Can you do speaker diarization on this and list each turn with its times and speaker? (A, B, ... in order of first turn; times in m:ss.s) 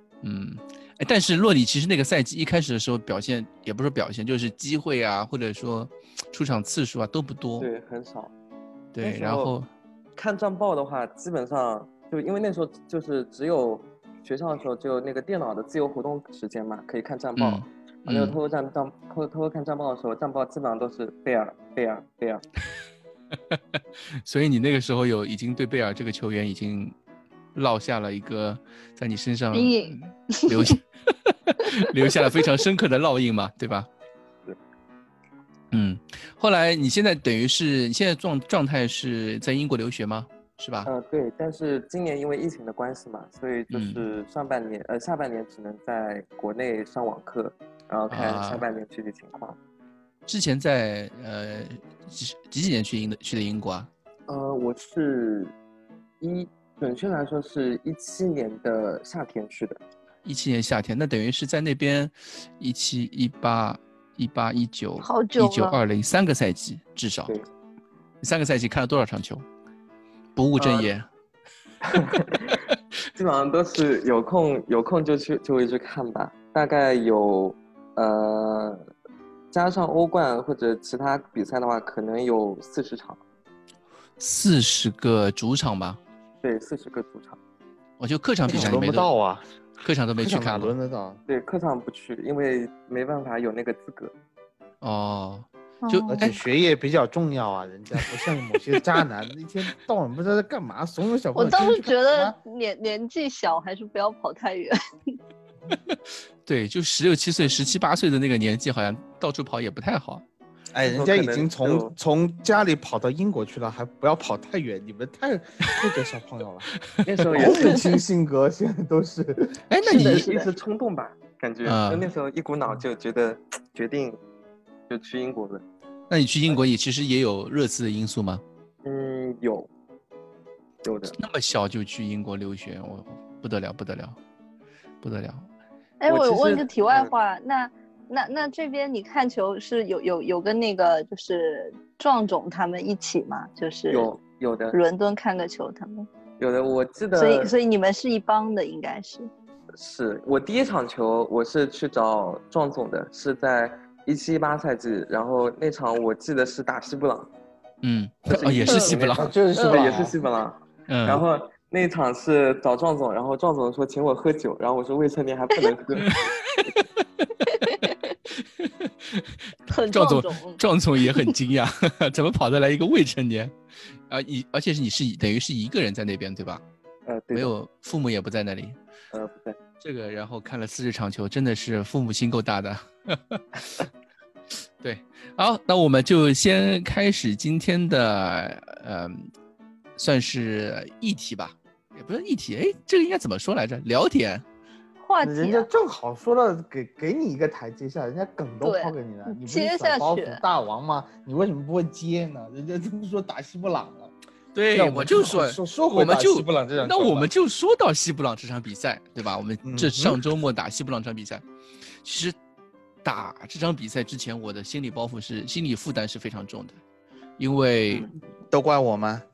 0:00.2-0:07.7 A
0:07.6-0:08.3 B
0:09.0-0:09.7 A
0:09.0-0:09.5 B
0:10.2-0:22.4 B
0:17.4-0:18.4 A
0:23.5-0:27.0 A
0:27.6-0:33.9 A
0:29.5-0:30.8 C
0:35.7-0:40.9 A
0:40.8-0:49.6 B
0:43.7-0:44.0 A
0:48.1-0:48.6 A
0:50.3-0:53.9 A
0:54.3-0:55.5 B
0:56.2-0:59.8 B
1:00.2-1:07.3 A
1:05.0-1:05.8 C
1:08.2-1:09.4 A
1:10.4-1:11.1 A
1:10.6-1:10.9 B
1:11.9-1:12.6 B
1:13.2-1:18.9 B
1:19.5-1:23.2 B
1:24.2-1:26.0 A
1:26.4-1:27.4 B
1:28.0-1:29.1 A
1:28.5-1:29.4 D
1:29.8-1:30.7 A
1:30.2-1:31.2 D
1:31.3-1:34.1 B
1:34.8-1:36.4 A
1:35.8-1:36.3 C
1:36.2-1:42.4 D
1:41.4-1:44.8 C
1:45.7-1:50.2 A
1:50.7-1:56.7 D
1:50.9-1:51.9 B
1:57.0-1:58.0 B
1:57.3-1:59.6 D
1:59.7-2:00.3 A
1:59.8-2:00.5 C
1:59.9-2:04.2 B
2:01.6-2:02.1 A
2:04.9-2:05.6 B
2:06.1-2:08.4 A
2:08.8-2:09.7 B
2:10.8-2:11.2 B
2:11.1-2:14.2 A
2:15.0-2:15.5 A
2:16.0-2:24.1 C
2:16.1-2:17.1 B
2:23.9-2:24.8 B
2:24.7-2:26.1 C
2:26.4-2:27.5 B
2:27.2-2:29.3 C
2:29.8-2:37.3 B
2:37.8-2:39.3 A
2:38.3-2:46.2 B
2:39.1-2:40.2 D
2:40.9-2:41.2 A
2:47.5-2:48.1 C
2:48.3-2:53.6 A
2:49.7-2:51.3 C
2:54.1-2:56.6 A
2:57.1-2:57.5 B
2:57.3-2:58.8 A
2:59.1-2:59.6 B
2:59.8-3:03.8 A
3:04.8-3:09.3 A
3:10.0-3:14.4 A
3:15.0-3:15.7 C
3:15.2-3:24.1 D
3:18.6-3:20.4 C
3:24.5-3:31.4 A
3:24.7-3:27.3 D
3:29.6-3:30.2 D
3:32.0-3:32.4 A
3:33.0-3:36.8 A
3:37.4-3:38.1 A
3:38.5-3:39.2 D